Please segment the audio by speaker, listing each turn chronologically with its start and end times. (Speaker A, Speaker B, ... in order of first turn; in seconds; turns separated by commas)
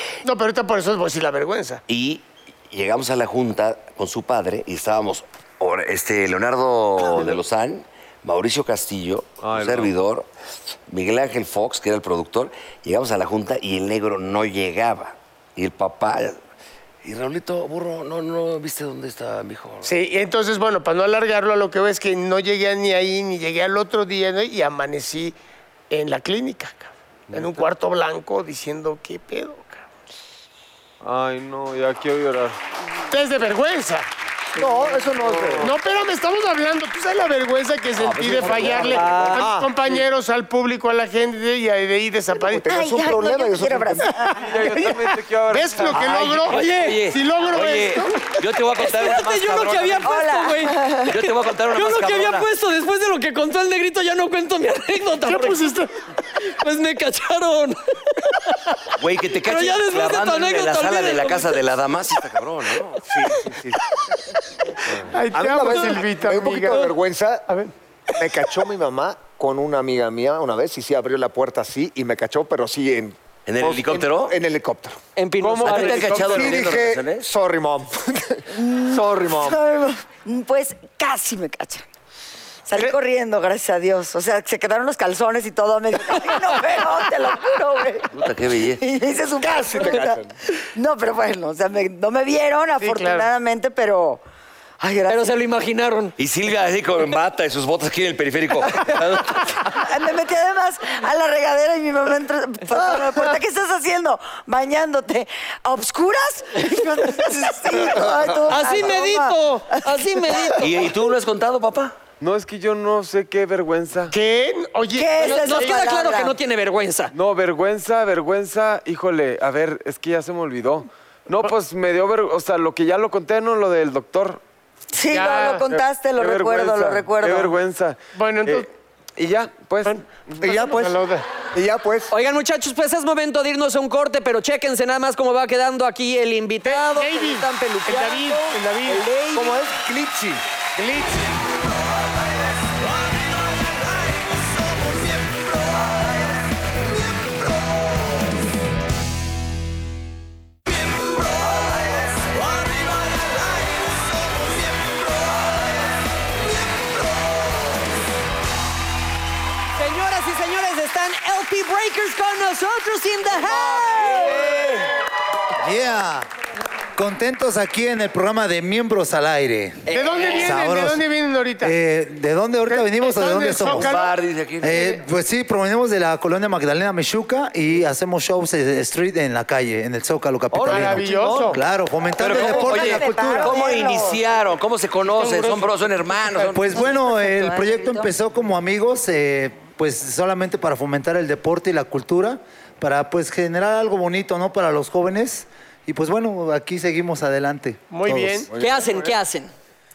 Speaker A: 0.2-1.8, Speaker B: 1.9-10.3, Speaker C: 9.4-9.9, Speaker B: 10.9-16.4, Speaker B: 17.0-19.9, Speaker A: 19.8-25.4, Speaker A: 25.9-29.9, Speaker C: 27.3-27.6, Speaker C: 31.0-32.6, Speaker A: 33.1-34.1, Speaker D: 34.6-35.7, Speaker C: 35.2-35.7, Speaker A: 35.6-42.7, Speaker B: 38.0-39.2, Speaker C: 38.5-39.3, Speaker E: 38.9-39.5, Speaker D: 39.3-39.7, Speaker D: 42.4-44.3, Speaker F: 42.7-44.6, Speaker C: 44.4-46.2, Speaker A: 45.5-48.2, Speaker B: 45.9-50.2, Speaker E: 46.5-47.1, Speaker E: 48.8-55.7, Speaker F: 50.0-51.1, Speaker B: 51.1-52.5, Speaker A: 55.2-55.9, Speaker E: 56.4-58.9, Speaker B: 59.0-63.0, Speaker E: 59.4-61.6, Speaker D: 63.1-63.7, Speaker A: 65.1-66.9, Speaker D: 65.3-67.5, Speaker D: 68.2-75.0, Speaker B: 73.5-74.4, Speaker E: 75.2-76.3, Speaker C: 75.4-76.7, Speaker B: 75.6-77.3, Speaker D: 76.2-79.6, Speaker F: 78.6-81.8, Speaker F: 82.7-88.1, Speaker B: 88.1-88.8, Speaker F: 88.8-90.2, Speaker D: 89.4-90.3, Speaker F: 90.8-94.2, Speaker A: 92.8-93.3, Speaker F: 94.8-95.2, Speaker E: 95.1-96.1, Speaker B: 96.2-99.6, Speaker F: 99.7-110.6, Speaker E: 108.5-110.6, Speaker B: 110.6-112.0, Speaker C: 112.2-114.1, Speaker A: 114.1-115.7, Speaker F: 114.9-116.4, Speaker E: 115.2-117.1, Speaker C: 117.1-124.4, Speaker F: 124.9-127.5, Speaker A: 125.1-125.7, Speaker C: 125.7-130.5, Speaker A: 128.2-128.7, Speaker A: 129.8-131.2, Speaker D: 130.4-131.0, Speaker D: 131.5-132.1, Speaker E: 132.1-139.6, Speaker A: 136.6-139.1, Speaker D: 139.3-140.4, Speaker A: 140.8-141.3, Speaker B: 143.9-144.9, Speaker B: 152.3-154.9, Speaker E: 159.8-164.9, Speaker G: 165.6-166.3, Speaker G: 167.0-169.8, Speaker E: 169.9-170.6, Speaker A: 169.9-171.8, Speaker G: 170.4-171.0, Speaker G: 171.6-173.9, Speaker A: 172.7-174.2, Speaker B: 173.7-174.8, Speaker G: 174.6-183.6, Speaker B: 180.5-181.5, Speaker A: 180.7-181.6, Speaker B: 182.2-186.8, Speaker F: 182.2-184.2, Speaker A: 185.1-185.7, Speaker G: 186.5-198.4, Speaker F: 186.7-188.1, Speaker A: 197.9-199.1, Speaker E: 198.5-199.5